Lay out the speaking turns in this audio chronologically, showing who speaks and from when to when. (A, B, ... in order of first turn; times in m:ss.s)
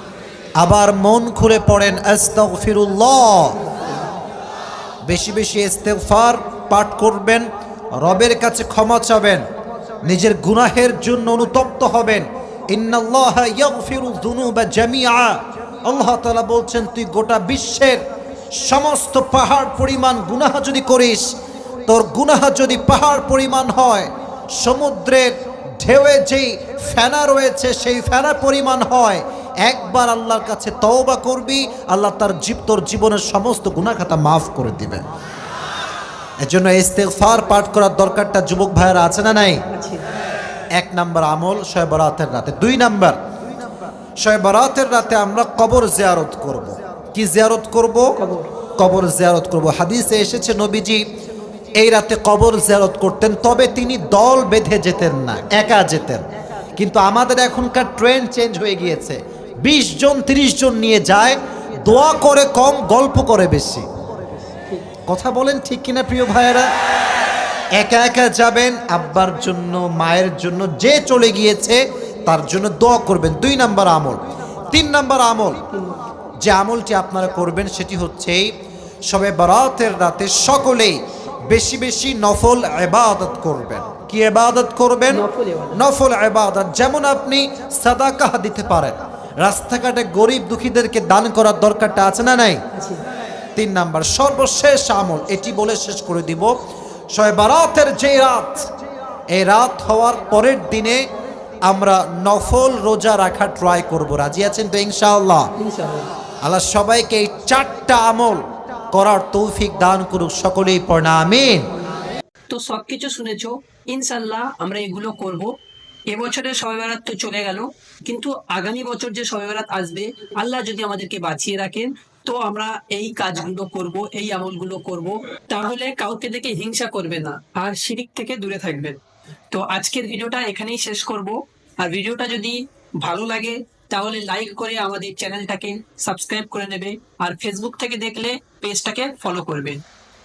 0:00.6-0:03.6 A
0:05.0-0:07.4 A
0:08.0-0:09.4 A
0:10.0-0:18.0 A
0:18.6-0:21.2 A
0:21.9-0:35.0 A
0:36.4-0:39.6 A
0:39.7-0:40.0 B
0:40.8-0:43.2 A
0:44.2-0:48.1 A
0:48.2-0:48.5 B
0:48.8-0:51.0 A
0:51.8-0:56.2 A
0:56.8-1:03.8 A
1:04.6-1:04.9 B
1:05.1-1:06.7 A
1:07.8-1:14.2 A
1:14.7-1:15.6 A
1:15.7-1:16.0 B
1:16.4-1:18.5 A
1:19.1-1:20.9 A
1:21.5-1:25.2 A
1:25.1-1:25.8 B
1:25.8-1:32.6 A
1:32.7-1:33.0 B
1:33.6-1:36.5 A
1:37.1-1:38.7 A
1:39.3-1:41.0 A
1:41.7-1:45.5 A
1:45.6-1:46.1 B
1:46.4-1:51.6 A
1:52.5-1:55.5 B
1:56.1-2:09.0 B
2:09.5-2:19.8 B